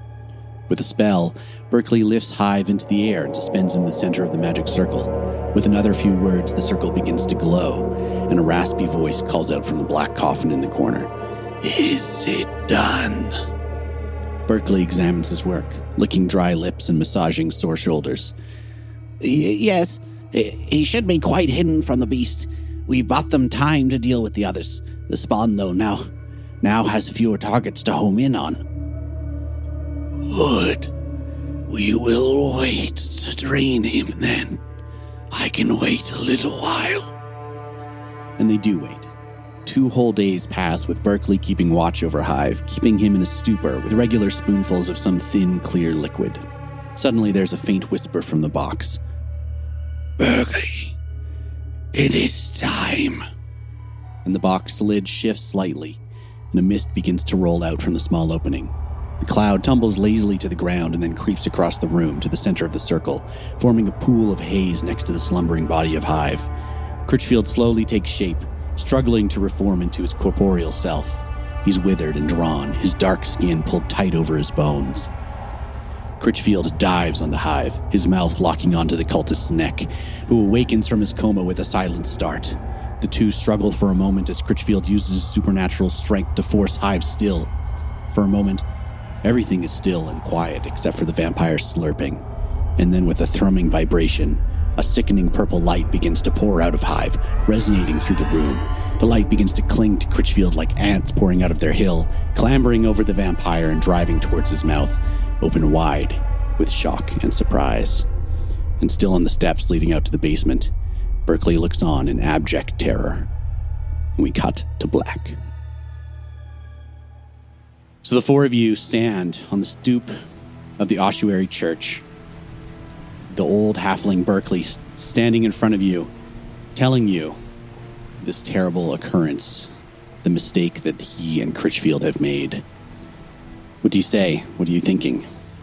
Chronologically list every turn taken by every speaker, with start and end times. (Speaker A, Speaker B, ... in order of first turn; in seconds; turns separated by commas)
Speaker A: 0.7-13.4, Speaker A: 14.5-18.4, Speaker A: 19.2-26.1, Speaker A: 26.6-28.6, Speaker A: 30.2-30.9, Speaker A: 31.7-34.6, Speaker A: 35.3-37.1, Speaker A: 38.4-39.1, Speaker A: 39.6-49.0, Speaker A: 50.2-51.0, Speaker A: 51.9-53.2, Speaker A: 54.2-56.0, Speaker A: 56.5-66.5, Speaker A: 67.1-75.1, Speaker A: 76.2-87.5, Speaker A: 88.1-88.6, Speaker A: 89.2-92.2, Speaker A: 92.8-108.1, Speaker A: 108.8-110.7, Speaker A: 111.3-113.3, Speaker A: 114.2-115.4, Speaker A: 118.0-120.1, Speaker A: 120.8-122.0, Speaker A: 123.3-126.1, Speaker A: 126.8-127.4, Speaker A: 128.2-129.7, Speaker A: 130.2-132.6, Speaker A: 133.8-135.3